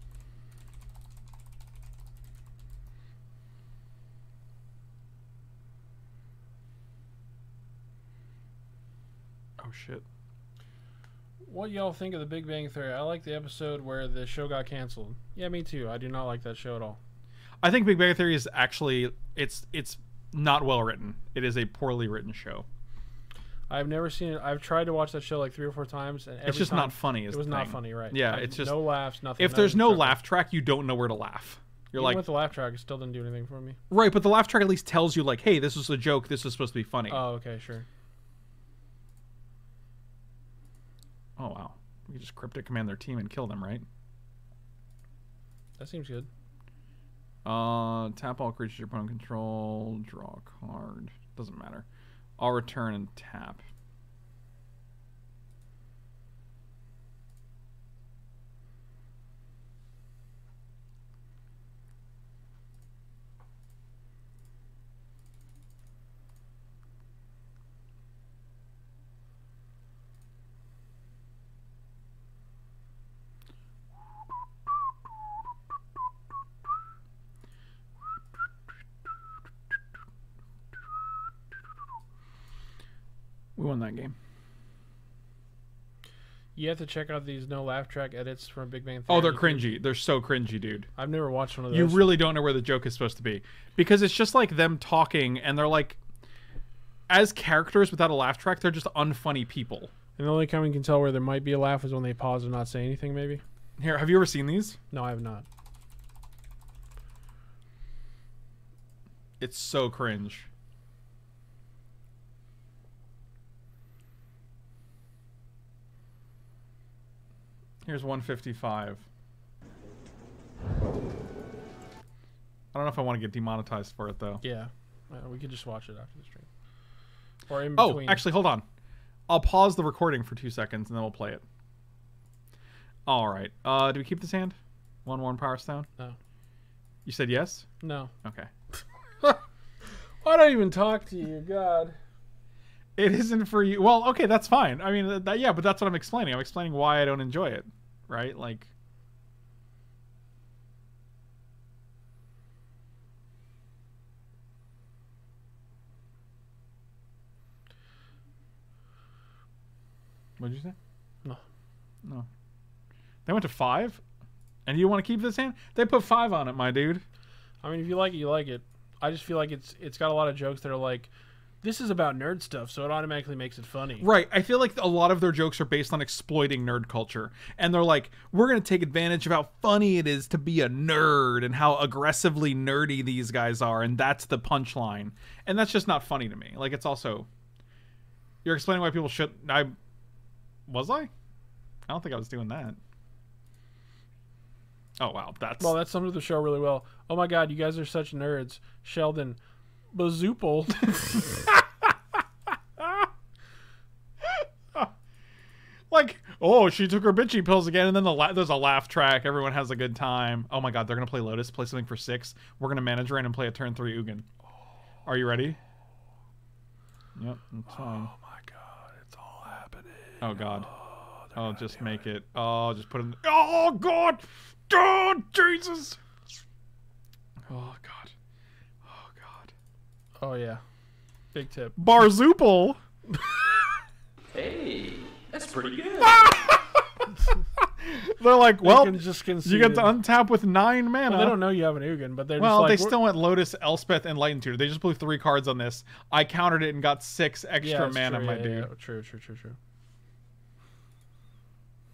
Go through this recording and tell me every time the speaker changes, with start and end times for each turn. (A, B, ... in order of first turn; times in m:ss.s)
0:09.6-0:10.0 A
0:11.4-0:17.0 B
0:17.6-0:22.7 A
0:23.7-0:30.2 B
0:26.4-0:28.8 A
0:29.4-0:32.3 A
0:32.0-0:33.8 B
0:33.9-0:37.2 A
0:37.1-0:37.9 B
0:41.4-0:43.9 A
0:45.8-0:46.3 B
0:47.4-0:51.8 A
0:52.4-0:53.7 A
1:23.6-1:24.2 A
1:26.6-1:29.7 B
1:29.1-1:30.9 A
1:31.0-1:32.1 B
1:31.7-1:36.0 A
1:37.1-1:39.9 A
1:40.2-1:43.4 B
1:43.8-1:44.8 A
1:44.9-1:45.5 B
1:49.4-1:50.5 A
1:57.8-1:59.1 A
2:02.7-2:04.4 A
2:04.4-2:06.5 B
2:07.5-2:08.2 B
2:07.8-2:08.6 A
2:09.3-2:11.4 A
2:13.1-2:15.9 A
2:17.0-2:17.7 A
2:17.8-2:18.1 B
2:18.2-2:18.5 A
2:20.2-2:22.0 B
2:23.0-2:28.7 A
2:40.4-2:40.8 A
2:43.3-2:44.0 A
2:44.7-2:47.0 A
2:47.6-2:51.1 B
2:51.6-2:54.1 B
2:54.0-3:07.3 A
3:08.4-3:09.8 A
3:10.7-3:11.1 A
3:11.9-3:12.8 A
3:15.0-3:15.8 A
3:15.6-3:19.4 B
3:19.9-3:21.5 B
3:24.2-3:24.9 A
3:25.9-3:34.3 A
3:35.1-3:35.6 A
3:37.2-3:38.1 A
3:37.7-3:41.8 B
3:40.2-3:40.7 A
3:41.3-3:46.0 A
3:47.5-3:48.1 A
3:48.8-3:49.5 A
3:50.2-3:50.6 B
3:51.3-3:51.8 B
3:51.8-3:52.8 A
3:54.3-3:56.3 C
3:56.2-3:56.6 A
3:57.6-4:01.4 A
3:58.6-3:59.9 B
4:01.1-4:03.0 B
4:02.4-4:08.7 A
4:07.6-4:09.6 B